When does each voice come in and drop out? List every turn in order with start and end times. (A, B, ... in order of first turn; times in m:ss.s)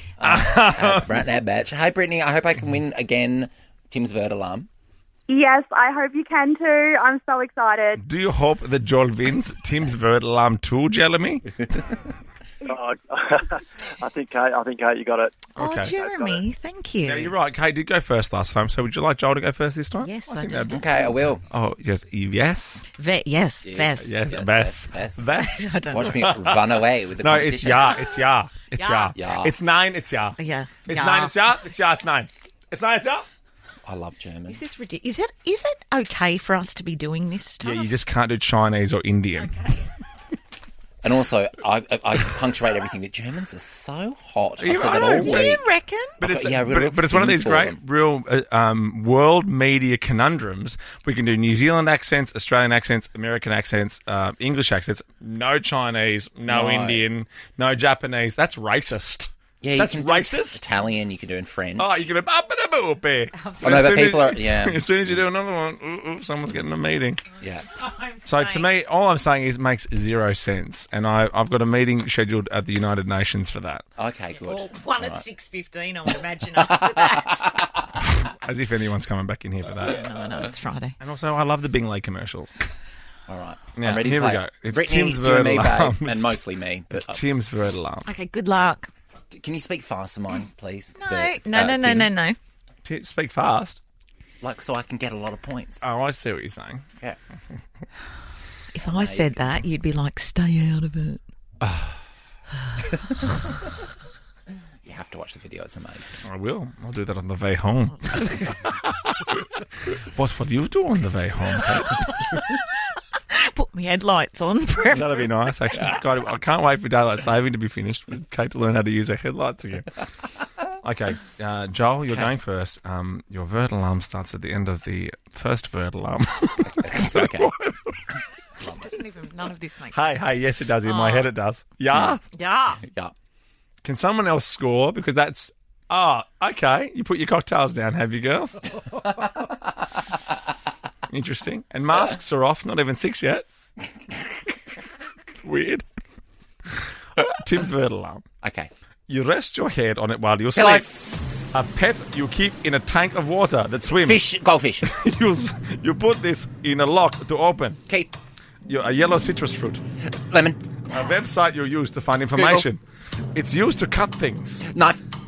0:00.2-0:01.3 A
0:00.2-0:04.7 B
0:05.3-0:08.0 C
0:08.0-0:11.6 A
0:12.7-0:15.4 D
0:15.6-0:17.4 E
0:15.6-0:15.9 A
0:16.0-0:16.4 D
0:17.1-0:22.8 A
0:20.0-0:20.8 E
0:20.7-0:21.4 B
0:22.9-0:24.2 E
0:23.6-0:25.3 B
0:24.0-0:33.3 A
0:25.3-0:26.2 E
0:25.9-0:28.0 B
0:28.7-0:29.2 E
0:29.2-0:29.6 B
0:30.4-0:31.4 E
0:33.8-0:34.6 B
0:34.5-0:37.9 E
0:37.6-0:39.5 A
0:39.4-0:39.9 E
0:41.0-0:45.6 B
0:44.6-0:45.5 A
0:44.9-0:46.2 E
0:46.2-1:00.6 A
0:46.2-0:47.8 B
0:56.5-0:57.1 B
0:59.6-1:02.1 B
1:01.8-1:07.2 A
1:03.3-1:03.9 E
1:03.6-1:05.2 B
1:07.4-1:07.6 B
1:07.7-1:08.7 E
1:08.3-1:13.8 A
1:14.0-1:15.2 B
1:14.3-1:17.5 E
1:16.5-1:17.8 B
1:18.0-1:20.0 A
1:19.8-1:21.0 E
1:21.0-1:22.5 A
1:23.3-1:27.2 B
1:23.8-1:28.1 A
1:28.0-1:28.9 E
1:29.3-1:32.1 B
1:31.0-1:32.4 E
1:32.8-1:33.8 A
1:34.4-1:35.8 B
1:35.8-1:36.8 A
1:38.7-1:41.2 E
1:38.8-1:39.7 B
1:41.6-1:42.0 A
1:44.8-1:46.2 B
1:46.2-1:52.1 A
1:52.3-1:52.5 E
1:53.1-1:55.3 E
1:54.9-1:59.9 A
2:00.8-2:08.2 A
2:06.7-2:07.5 B
2:08.6-2:10.3 E
2:08.6-2:08.9 B
2:09.9-2:12.2 A
2:10.8-2:11.3 E
2:12.3-2:12.8 E
2:12.8-2:13.1 B
2:13.8-2:18.7 A
2:21.1-2:23.5 A
2:25.4-2:25.8 A
2:27.2-2:28.2 A
2:28.4-2:28.7 B
2:29.1-2:30.9 A
2:30.6-2:30.9 B
2:31.5-2:34.2 A
2:34.0-2:34.9 B
2:34.8-2:37.8 A
2:38.7-2:39.8 A
2:40.2-2:40.6 B
2:40.9-2:42.8 A
2:42.4-2:42.7 B
2:43.3-2:44.7 A
2:44.6-2:45.0 B